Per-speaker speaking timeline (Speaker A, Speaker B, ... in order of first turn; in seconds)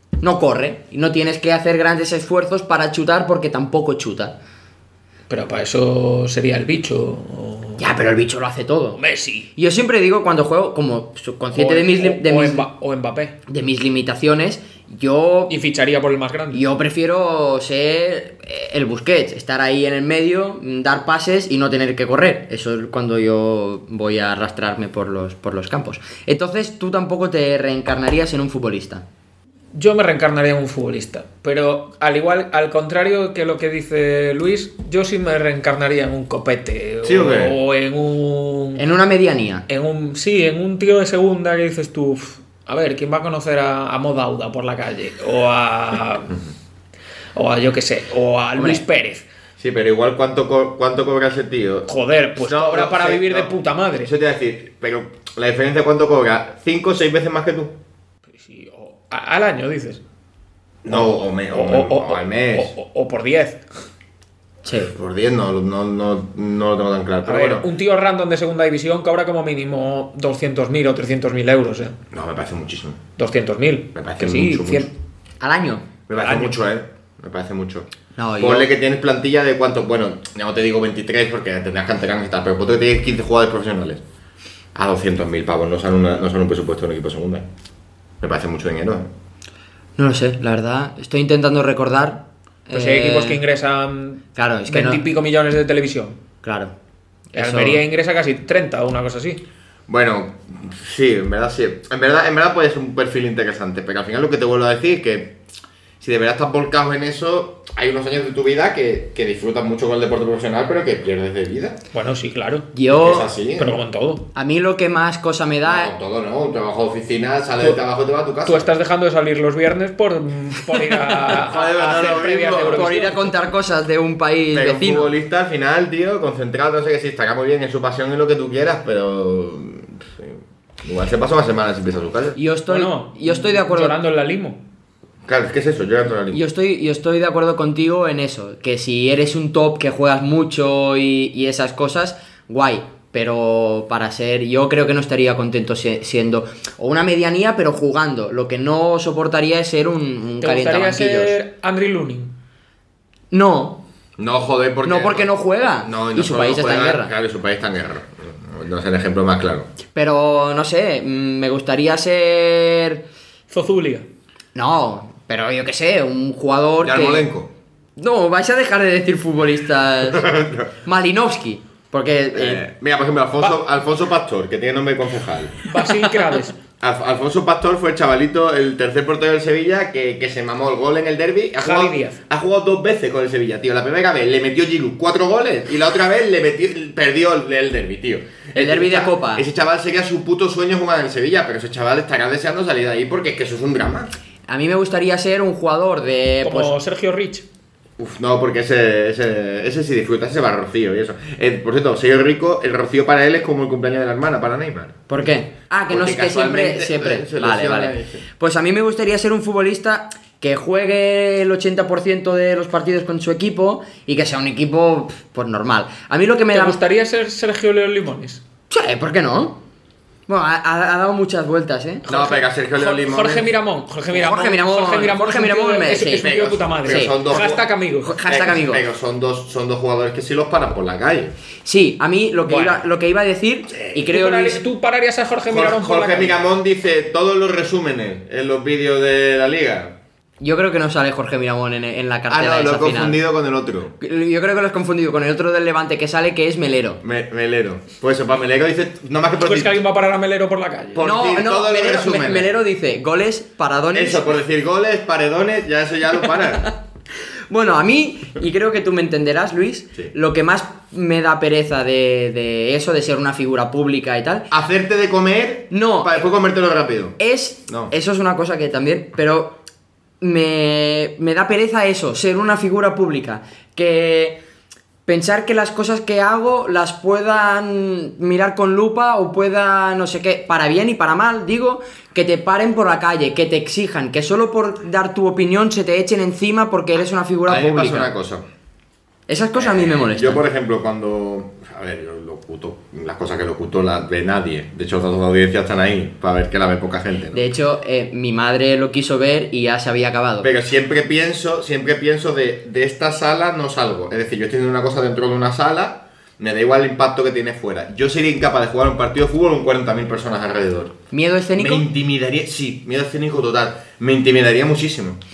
Speaker A: 0.2-4.3, 7.8-9.0, 9.6-12.6, 13.5-15.6, 16.5-29.0, 38.8-39.6, 48.6-48.8, 64.6-64.9, 75.4-75.8, 78.2-78.7, 90.0-93.4, 94.3-95.0, 96.4-96.7, 97.3-97.8, 112.7-113.3, 114.3-115.9, 120.8-121.3, 122.7-125.1, 132.3-134.0, 136.3-151.3, 153.3-153.8, 154.8-157.1, 159.9-163.0, 164.5-167.3, 168.0-172.6, 188.5-189.4, 194.5-196.7, 205.1-216.8, 218.7-219.6, 220.3-222.0, 224.1-226.3, 226.8-227.5, 228.0-228.8, 231.6-234.6, 240.4-243.2, 244.0-247.0, 251.0-254.3, 257.5-264.5, 265.7-266.2, 267.2-269.6, 270.2-274.4, 275.1-288.1, 289.3-290.4, 297.3-300.5, 311.1-311.9
Speaker B: 5.3-7.8, 9.0-9.5, 11.5-13.4, 15.5-16.6, 29.7-38.8, 39.7-46.4, 47.3-49.3, 51.9-54.1, 58.4-60.0, 60.9-63.6, 67.2-72.0, 73.2-74.9, 76.2-76.5, 92.7-96.2, 97.3-99.4, 111.9-112.7, 113.5-114.3, 118.4-123.3, 132.7-134.6, 150.4-152.3, 163.5-164.1, 175.6-176.5, 181.6-182.2, 196.4-197.4, 216.5-218.4, 222.1-228.2, 232.4-232.8, 234.1-236.3, 249.4-251.0
Speaker C: 37.0-37.5, 49.6-57.8, 60.8-62.7, 64.9-67.7, 72.1-73.0, 73.9-74.9, 76.1-84.0, 84.7-87.5, 88.2-89.1, 99.9-105.4, 106.0-111.8, 112.9-113.8, 115.6-118.7, 121.4-123.0, 124.5-132.4, 135.2-136.4, 154.2-155.3, 155.8-159.7, 166.8-167.5, 170.0-170.7, 172.3-175.6, 176.8-194.1, 198.0-205.0, 205.9-208.2, 222.1-223.5, 226.1-227.6, 228.2-231.3, 233.7-234.1, 235.5-239.9, 242.3-243.9, 247.0-249.8, 250.9-252.6, 253.9-256.7, 264.5-267.9, 287.5-288.4, 289.6-297.5, 300.4-311.0, 311.6-315.2